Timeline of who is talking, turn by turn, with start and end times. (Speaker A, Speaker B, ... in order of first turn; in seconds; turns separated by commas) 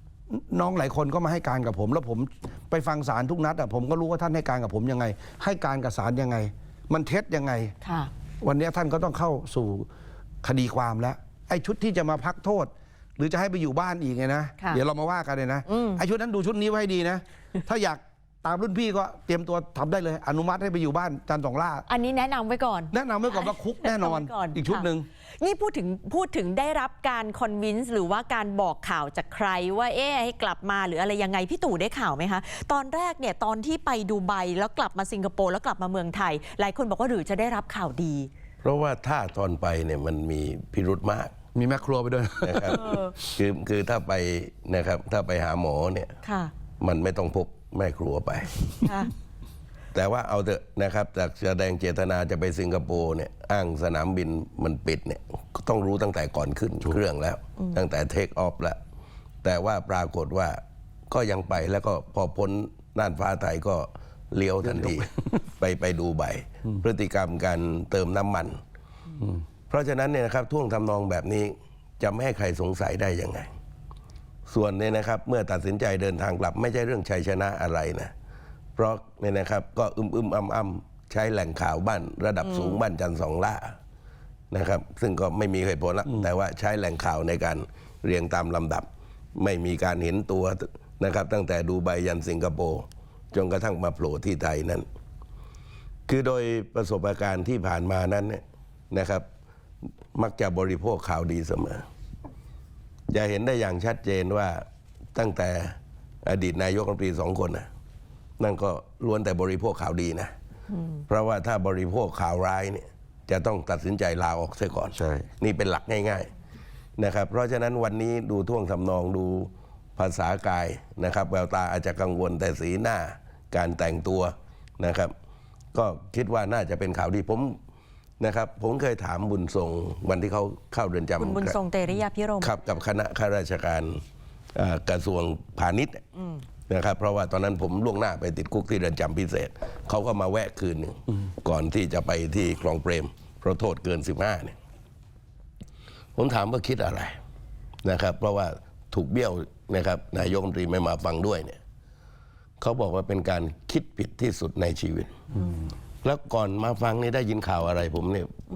Speaker A: 0.3-7.7, Speaker B: 7.8-8.1, Speaker A: 8.4-9.9, Speaker A: 10.4-21.9, Speaker B: 15.7-16.0, Speaker B: 21.9-24.9, Speaker A: 22.9-25.1, Speaker B: 25.4-38.3, Speaker C: 38.6-41.3, Speaker A: 41.5-43.3, Speaker C: 42.4-46.1, Speaker B: 42.7-43.1, Speaker B: 46.2-46.5, Speaker C: 46.8-48.8, Speaker B: 48.8-49.1, Speaker C: 49.9-58.8, Speaker C: 59.4-68.6, Speaker A: 64.7-65.1, Speaker C: 69.7-73.5, Speaker C: 74.5-78.1, Speaker C: 78.8-83.8, Speaker C: 84.5-94.9, Speaker C: 96.1-99.2, Speaker C: 100.2-101.9, Speaker C: 103.1-107.7, Speaker C: 108.4-110.3, Speaker C: 111.1-116.3, Speaker A: 115.0-115.3, Speaker C: 117.0-125.1, Speaker C: 125.7-127.6, Speaker C: 128.2-131.6, Speaker B: 131.2-132.6, Speaker C: 132.4-134.0, Speaker C: 134.6-136.0, Speaker C: 136.7-144.6, Speaker C: 146.2-147.2, Speaker C: 147.8-151.6, Speaker C: 152.6-155.2, Speaker A: 155.3-155.7, Speaker C: 156.0-158.3